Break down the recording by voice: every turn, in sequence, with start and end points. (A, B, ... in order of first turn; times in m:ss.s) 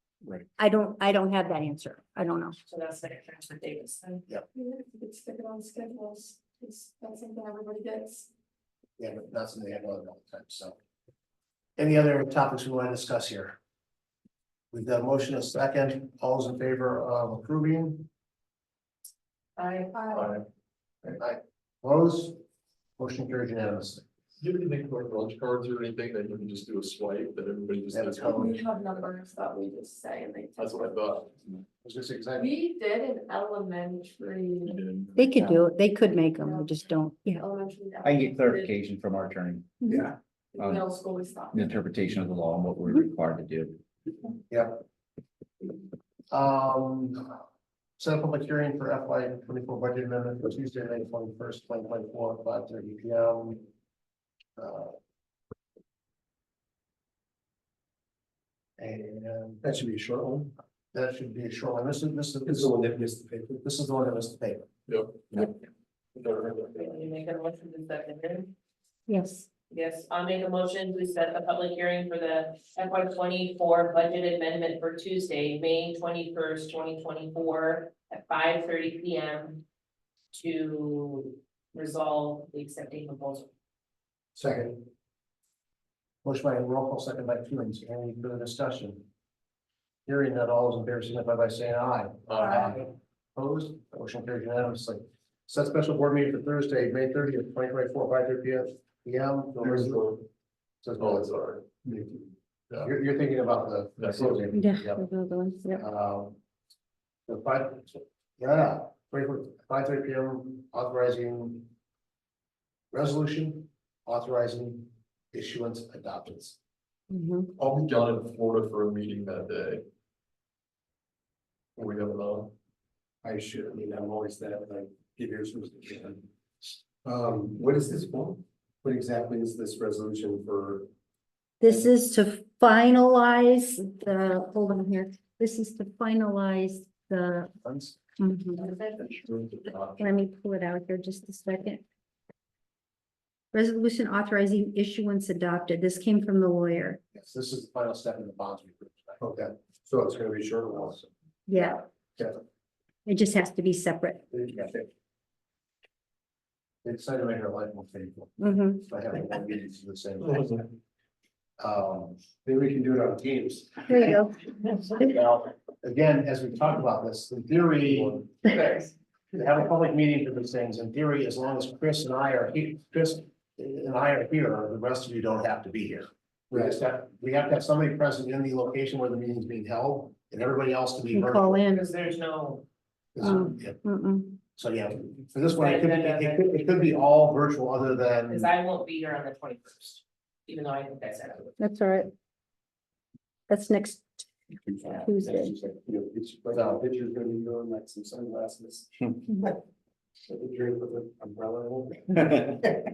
0:00.6-0:02.6 A
0:02.6-0:04.2 B
0:04.5-0:08.3 C
0:09.0-0:10.8 D
0:11.8-0:13.5 D
0:14.7-0:18.1 D
0:19.6-0:20.3 C
0:20.1-0:20.4 E
0:21.2-0:22.4 D
0:23.0-0:24.0 D
0:24.4-0:28.6 E
0:27.9-0:28.6 D
0:28.4-0:31.0 C
0:30.6-0:31.4 E
0:31.8-0:32.5 D
0:32.4-0:34.8 C
0:34.6-0:35.2 E
0:35.2-0:37.4 A
0:36.3-0:38.8 C
0:38.0-0:40.0 F
0:39.8-0:40.1 A
0:40.5-0:41.7 C
0:40.6-0:40.8 F
0:41.5-0:43.8 F
0:44.5-0:44.8 D
0:46.3-0:47.4 D
0:48.0-0:53.6 D
0:54.6-0:55.0 D
0:58.8-0:59.6 D
0:59.6-1:00.5 G
1:00.9-1:02.7 D
1:02.4-1:03.6 G
1:03.6-1:04.7 D
1:04.9-1:05.6 E
1:06.2-1:06.7 E
1:06.7-1:08.5 B
1:09.1-1:09.4 A
1:09.7-1:19.6 B
1:20.3-1:23.5 B
1:24.4-1:24.8 G
1:26.2-1:29.0 D
1:30.0-1:40.2 D
1:32.3-1:32.7 E
1:39.6-1:40.2 E
1:40.8-1:41.3 D
1:41.0-1:41.6 E
1:41.8-1:42.3 G
1:42.8-1:45.1 D
1:44.0-1:44.5 E
1:44.5-1:45.8 A
1:45.7-1:46.4 D
1:47.3-1:51.7 D
1:52.9-1:56.6 D
1:57.1-1:57.5 A
1:57.6-1:59.8 E
2:01.8-2:02.5 E
2:03.2-2:06.2 G
2:07.0-2:10.9 G
2:11.6-2:17.5 A
2:17.6-2:18.0 D
2:18.2-2:18.8 A
2:19.2-2:19.9 E
2:20.0-2:21.8 A
2:23.5-2:27.0 A
2:27.1-2:29.2 D
2:29.2-2:31.1 G
2:31.5-2:31.8 A
2:33.0-2:34.2 A
2:34.3-2:34.9 G
2:36.8-2:40.7 D
2:38.4-2:38.8 A
2:41.6-2:42.3 D
2:42.4-2:43.6 G
2:43.2-2:44.1 D
2:43.9-2:44.4 A
2:44.9-2:48.6 D
2:49.3-3:01.8 D
2:56.5-2:56.8 G
3:01.1-3:01.8 A
3:01.7-3:02.6 B
3:03.1-3:03.8 D
3:03.2-3:04.4 A
3:04.5-3:08.5 D
3:05.5-3:07.0 B
3:08.3-3:11.5 B
3:11.6-3:12.1 A
3:13.5-3:14.3 A
3:14.8-3:15.5 A
3:14.8-3:19.5 G
3:16.5-3:16.8 D
3:20.3-3:22.7 G